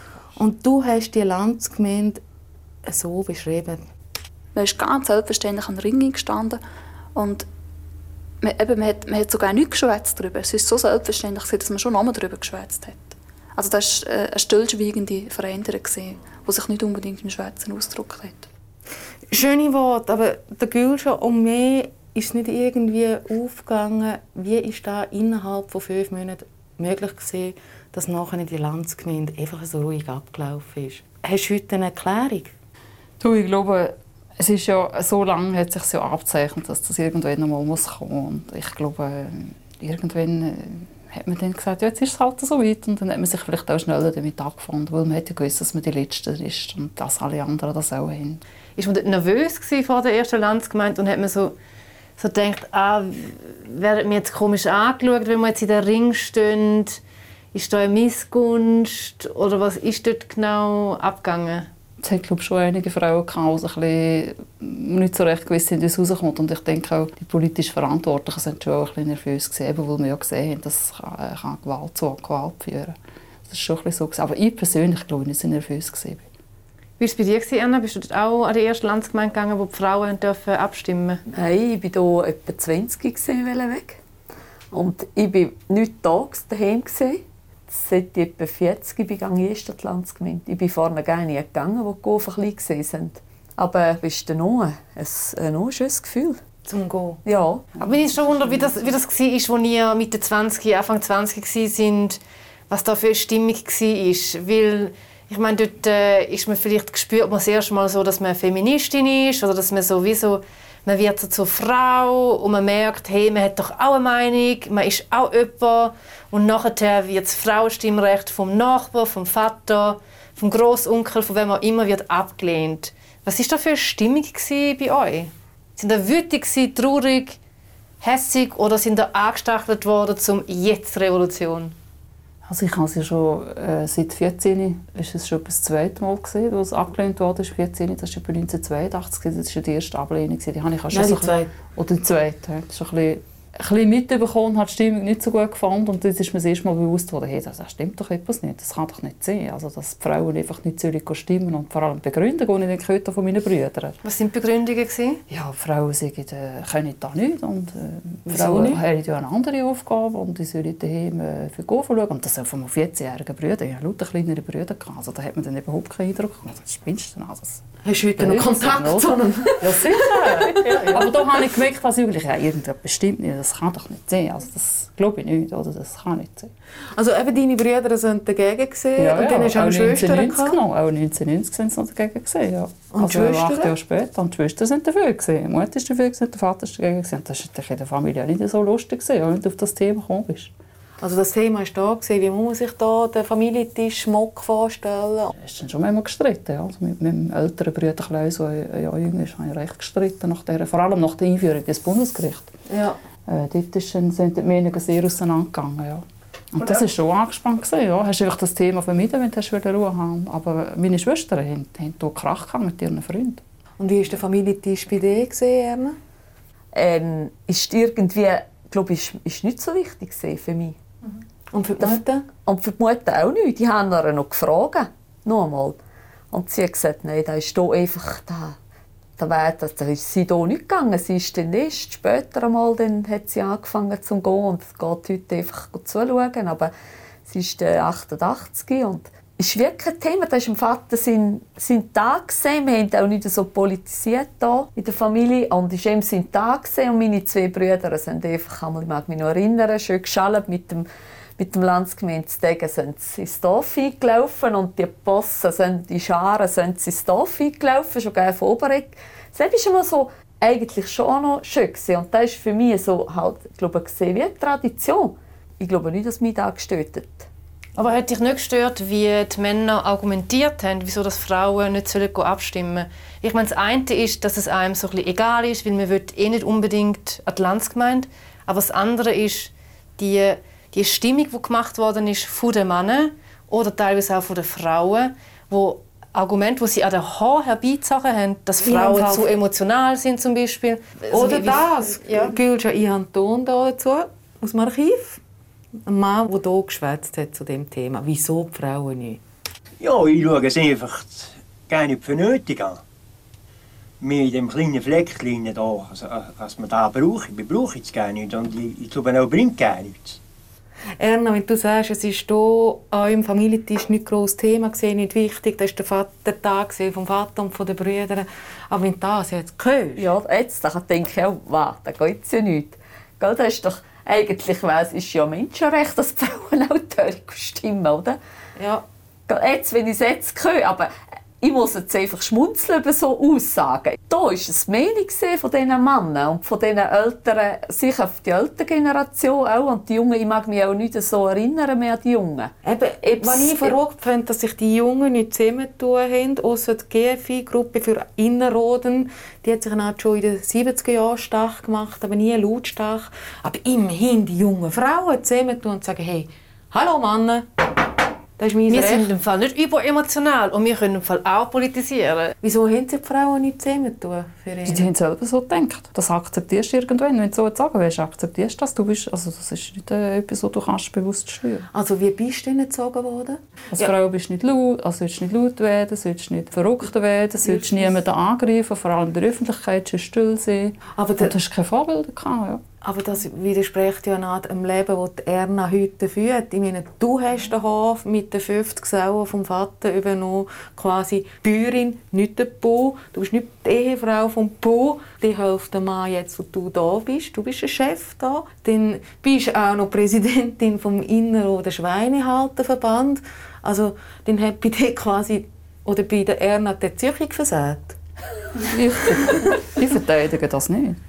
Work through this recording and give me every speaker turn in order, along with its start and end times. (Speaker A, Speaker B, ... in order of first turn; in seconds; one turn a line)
Speaker A: 0.3-2.2
Speaker A: 2.8-3.9
Speaker B: 4.5-6.6
Speaker B: 7.1-7.5
Speaker B: 8.4-18.5
Speaker A: 19.3-32.5
Speaker C: 33.2-48.4
Speaker D: 48.8-51.5
Speaker D: 52.2-57.0
Speaker D: 57.5-61.7
Speaker C: 62.0-73.0
Speaker C: 73.5-76.3
Speaker D: 77.0-81.2
Speaker E: 81.3-84.0
Speaker E: 84.7-96.4
Speaker A: 96.6-97.2
Speaker E: 97.2-97.8
Speaker D: 97.8-102.2
Speaker D: 102.7-127.4
Speaker D: 128.0-131.7
Speaker C: 132.4-154.0
Speaker A: 140.9-141.5
Speaker D: 154.0-155.2
Speaker C: 155.3-167.6
Speaker A: 158.3-158.8
Speaker A: 167.8-170.8
Speaker C: 168.2-176.5
Speaker E: 170.6-171.1
Speaker A: 176.9-180.6
Speaker C: 179.0-190.5
Speaker A: 182.9-183.7
Speaker A: 191.0-195.3
Speaker C: 195.4-202.5
Speaker A: 202.7-203.0
Speaker C: 203.3-213.4
Speaker A: 213.8-216.0
Speaker E: 216.7-220.8
Speaker A: 221.5-222.2
Speaker E: 221.8-225.8
Speaker E: 226.3-228.6
Speaker E: 229.2-236.7
Speaker E: 237.2-250.8
Speaker E: 251.4-267.3
Speaker D: 267.8-292.3
Speaker A: 288.6-289.3
Speaker A: 291.1-295.2
Speaker A: 295.8-299.2
Speaker F: 299.8-302.8
Speaker F: 304.0-310.2
Speaker A: 311.0-320.1
Speaker E: 320.0-328.2
Speaker A: 328.6-328.8
Speaker E: 329.3-343.7
Speaker A: 342.6-357.5
Speaker A: 358.4-359.1
Speaker D: 358.7-362.3
Speaker A: 362.4-364.9
Speaker C: 364.7-371.7
Speaker A: 371.7-373.9
Speaker C: 373.7-382.6
Speaker A: 377.4-377.9
Speaker A: 380.9-381.3
Speaker A: 382.8-408.0
Speaker C: 408.7-411.0